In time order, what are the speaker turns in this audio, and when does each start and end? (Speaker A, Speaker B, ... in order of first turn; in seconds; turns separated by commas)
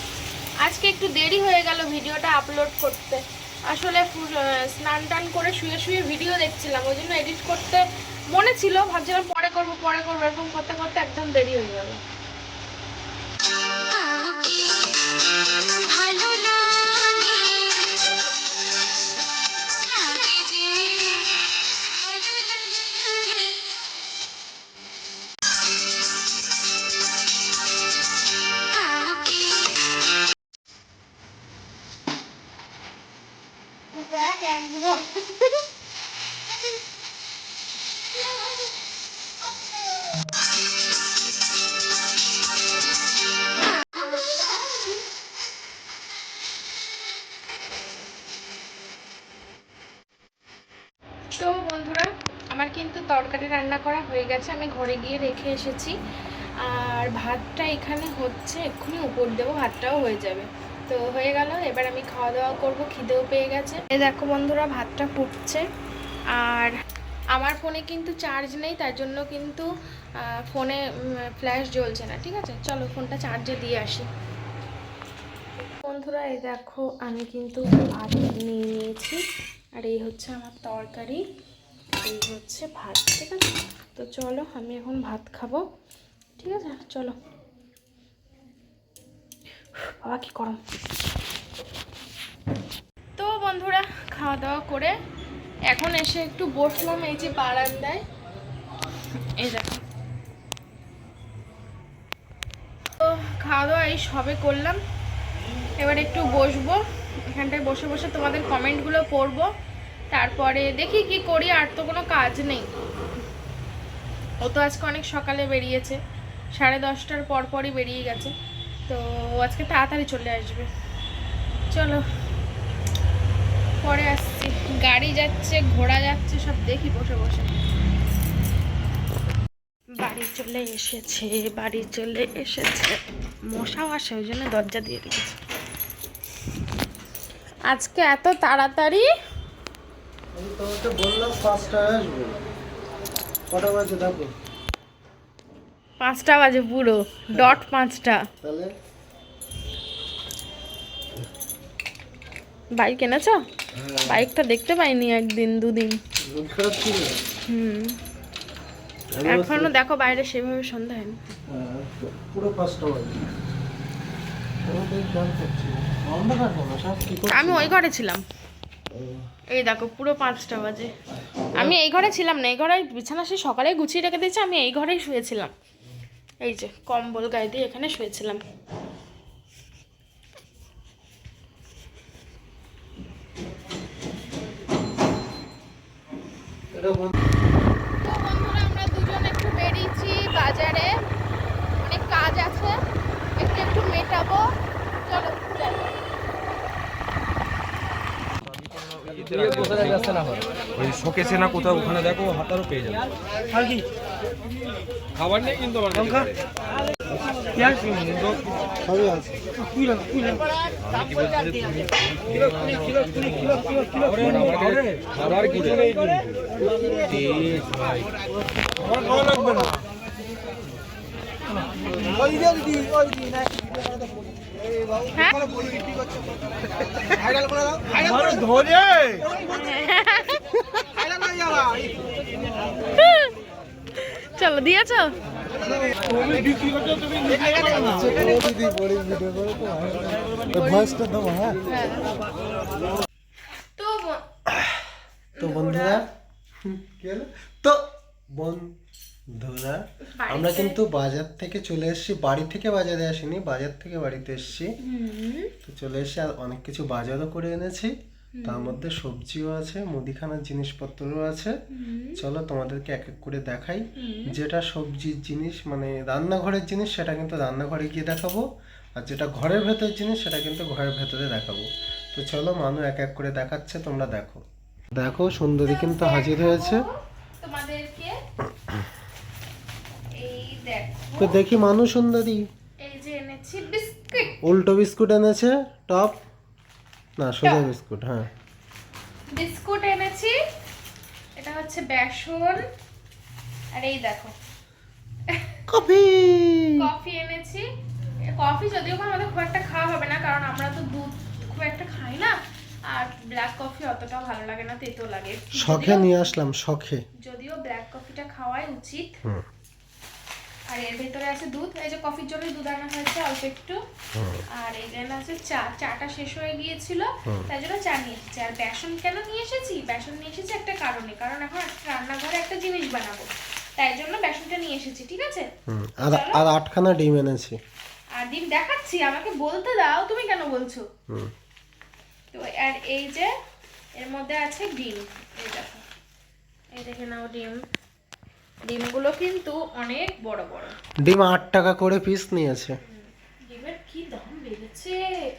Speaker A: 0.6-12.0, Speaker A: 51.4-56.0, Speaker A: 56.6-65.6, Speaker A: 66.3-66.7, Speaker A: 67.3-69.7, Speaker A: 70.2-74.0, Speaker A: 75.8-79.2, Speaker A: 79.8-81.2, Speaker A: 82.0-85.6, Speaker A: 86.4-87.2, Speaker A: 89.8-90.6, Speaker A: 93.2-94.9, Speaker A: 95.7-98.0, Speaker A: 99.3-99.8, Speaker A: 103.0-104.8, Speaker A: 105.8-109.5, Speaker A: 110.1-112.7, Speaker A: 114.4-116.0, Speaker A: 116.5-118.3, Speaker A: 118.9-120.7, Speaker A: 121.7-122.0, Speaker A: 123.8-127.6, Speaker A: 130.0-135.4, Speaker A: 137.7-139.1, Speaker B: 140.3-142.4, Speaker B: 143.5-144.3, Speaker A: 146.0-148.3, Speaker B: 148.4-148.7, Speaker A: 152.8-153.4, Speaker B: 153.7-154.3, Speaker A: 154.1-156.0, Speaker B: 156.2-157.2, Speaker A: 157.5-158.0, Speaker B: 159.1-159.7, Speaker A: 159.2-161.4, Speaker B: 161.5-163.2, Speaker B: 164.7-167.7, Speaker A: 167.3-168.2, Speaker B: 168.9-169.2, Speaker A: 169.5-170.9, Speaker B: 171.4-171.8, Speaker A: 171.6-175.5, Speaker A: 176.4-178.4, Speaker B: 186.7-187.1, Speaker A: 188.0-190.9, Speaker A: 191.8-192.8, Speaker A: 193.4-194.5, Speaker A: 195.0-195.9, Speaker C: 199.3-202.9, Speaker C: 205.5-206.3, Speaker B: 208.8-209.5, Speaker C: 211.0-211.8, Speaker C: 212.4-213.5, Speaker C: 214.1-216.1, Speaker C: 217.1-218.0, Speaker A: 225.1-225.4, Speaker A: 229.4-230.4, Speaker A: 232.9-233.3, Speaker A: 234.0-235.1, Speaker A: 237.3-237.8, Speaker B: 237.8-241.6, Speaker A: 240.5-242.1, Speaker A: 243.8-244.2, Speaker A: 245.3-246.0, Speaker B: 245.4-246.0, Speaker B: 246.6-248.7, Speaker B: 249.3-254.7, Speaker A: 250.1-250.8, Speaker A: 254.8-255.5, Speaker B: 255.7-257.9, Speaker A: 258.3-258.8, Speaker B: 258.4-261.5, Speaker A: 261.7-262.2, Speaker B: 262.2-268.4, Speaker A: 263.9-264.4, Speaker B: 268.9-274.4, Speaker B: 274.9-276.8, Speaker A: 275.6-278.1, Speaker A: 280.2-281.4, Speaker B: 281.2-282.4, Speaker A: 282.8-284.4, Speaker B: 284.4-286.2, Speaker B: 287.2-288.3, Speaker A: 289.3-290.3, Speaker A: 291.4-292.6, Speaker A: 293.7-294.3, Speaker A: 295.3-295.6, Speaker B: 295.7-296.8, Speaker A: 296.8-297.6, Speaker A: 298.3-302.4, Speaker A: 302.9-306.3, Speaker B: 305.5-307.0, Speaker A: 307.2-309.1, Speaker A: 310.7-313.8, Speaker B: 314.1-314.4, Speaker A: 314.5-325.5, Speaker B: 325.7-327.6, Speaker A: 326.1-326.4, Speaker A: 328.1-330.8, Speaker A: 332.3-333.3, Speaker A: 334.0-335.8, Speaker A: 336.7-337.6, Speaker A: 338.6-340.7, Speaker B: 341.0-342.7, Speaker A: 342.9-345.0